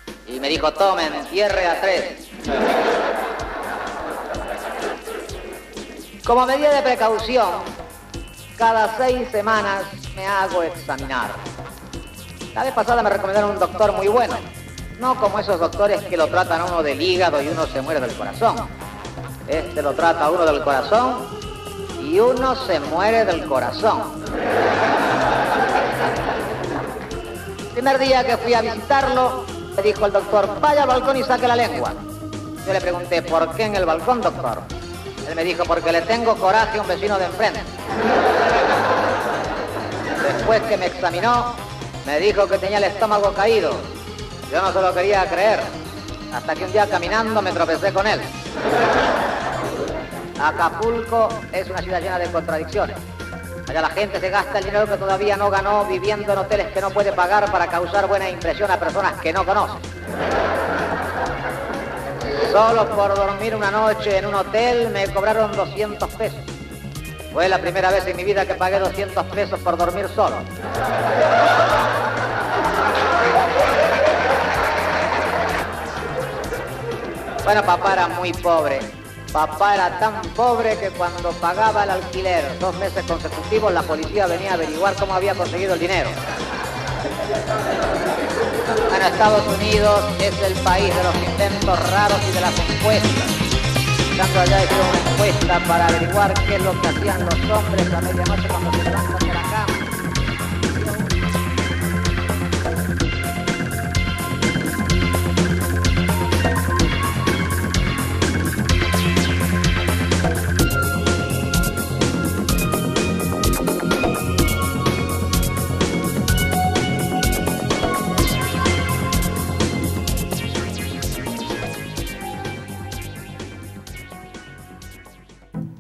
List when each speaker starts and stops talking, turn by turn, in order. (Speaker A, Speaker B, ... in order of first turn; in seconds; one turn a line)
Speaker A: 0.3-2.3
Speaker A: 6.2-7.7
Speaker A: 8.6-11.4
Speaker A: 12.6-14.5
Speaker A: 15.0-18.7
Speaker A: 19.5-21.3
Speaker A: 22.0-24.1
Speaker A: 27.7-32.0
Speaker A: 32.6-34.7
Speaker A: 35.2-37.7
Speaker A: 40.2-43.9
Speaker A: 44.5-45.7
Speaker A: 46.3-48.3
Speaker A: 50.4-53.0
Speaker A: 53.7-59.9
Speaker A: 62.4-66.5
Speaker A: 67.3-70.5
Speaker A: 77.4-86.2
Speaker A: 88.9-93.4
Speaker A: 94.1-99.9
Speaker A: 100.7-101.1